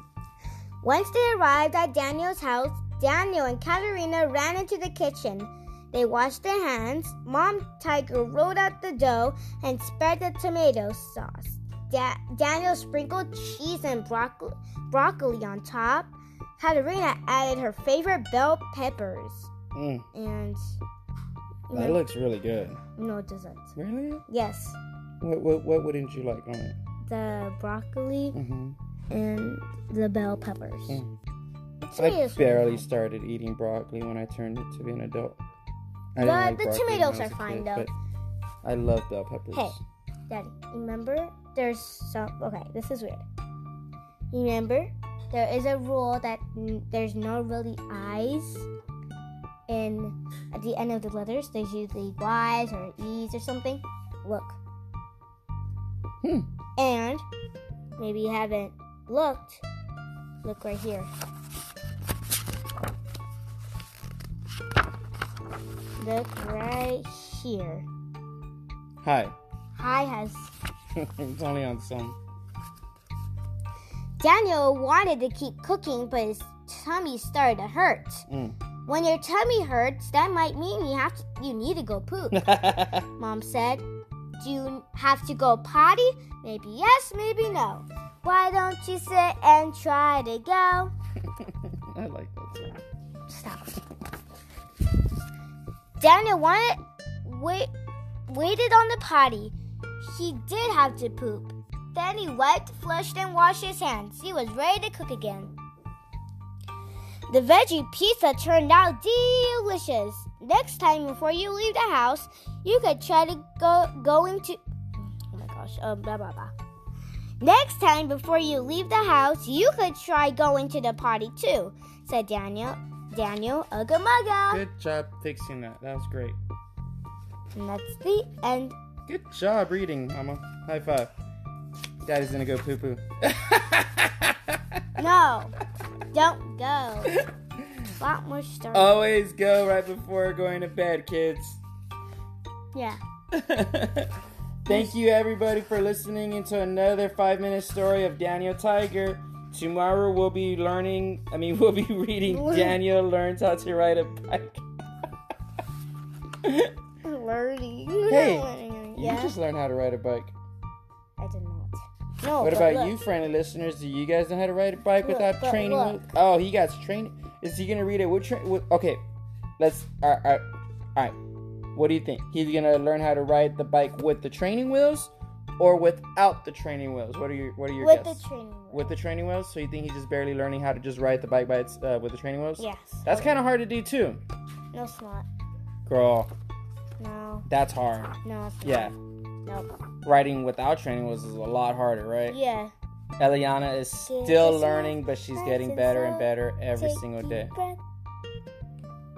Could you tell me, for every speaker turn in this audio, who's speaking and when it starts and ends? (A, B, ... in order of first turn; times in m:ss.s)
0:00.8-0:19.5 A
0:19.7-0:20.0 B
0:20.1-0:20.6 A
0:21.7-0:22.0 A
0:21.7-0:22.8 B
0:23.0-0:23.7 A
0:23.8-0:24.2 B
0:24.3-0:24.8 A
0:25.2-0:26.8 B
0:27.1-0:28.4 A
0:28.3-0:28.8 B
0:29.1-0:31.0 A
0:31.8-0:32.9 A
0:32.0-0:35.4 B
0:36.1-0:37.9 B
0:36.2-0:37.9 A
0:38.6-0:39.8 B
0:39.5-0:43.2 A
0:44.3-0:48.7 A
0:49.7-0:54.6 A
0:56.2-0:56.5 B
0:56.8-0:57.2 A
0:58.0-0:59.6 A
1:00.4-1:01.1 A
1:06.0-1:07.8 A
1:09.0-1:09.3 B
1:09.7-1:10.5 A
1:10.9-1:12.2 B
1:14.2-1:18.2 A
1:18.3-1:18.6 B
1:18.8-1:22.5 A
1:22.3-1:23.0 B
1:23.2-1:23.8 A
1:24.4-1:30.9 A
1:31.6-1:32.8 B
1:33.3-1:33.8 A
1:36.0-1:37.7 A
1:38.3-1:45.5 A
1:47.3-1:54.6 A
1:55.3-1:56.5 A
1:57.4-2:04.6 A
2:04.5-2:06.4 B
2:07.5-2:08.7 A
2:09.1-2:11.1 B
2:12.0-2:14.8 B
2:15.0-2:15.6 A
2:16.1-2:17.2 A
2:17.1-2:17.8 B
2:18.0-2:19.0 A
2:18.7-2:21.6 B
2:22.7-2:23.0 A
2:23.3-2:34.6 B
2:32.3-2:32.8 A
2:36.4-2:36.7 B
2:37.0-2:39.3 A
2:38.1-2:40.3 B
2:41.2-2:43.0 A
2:42.4-2:49.0 B
2:45.0-2:46.1 A
2:49.6-2:50.4 B
2:51.7-2:58.2 B
2:57.8-2:59.0 A
2:58.7-3:04.2 B
3:02.6-3:03.3 A
3:04.7-3:05.3 A
3:05.8-3:06.3 B
3:07.0-3:07.4 A
3:07.5-3:08.9 B
3:08.2-3:08.9 A
3:10.0-3:12.4 B
3:12.3-3:12.7 A
3:13.2-3:17.5 B
3:14.0-3:17.8 A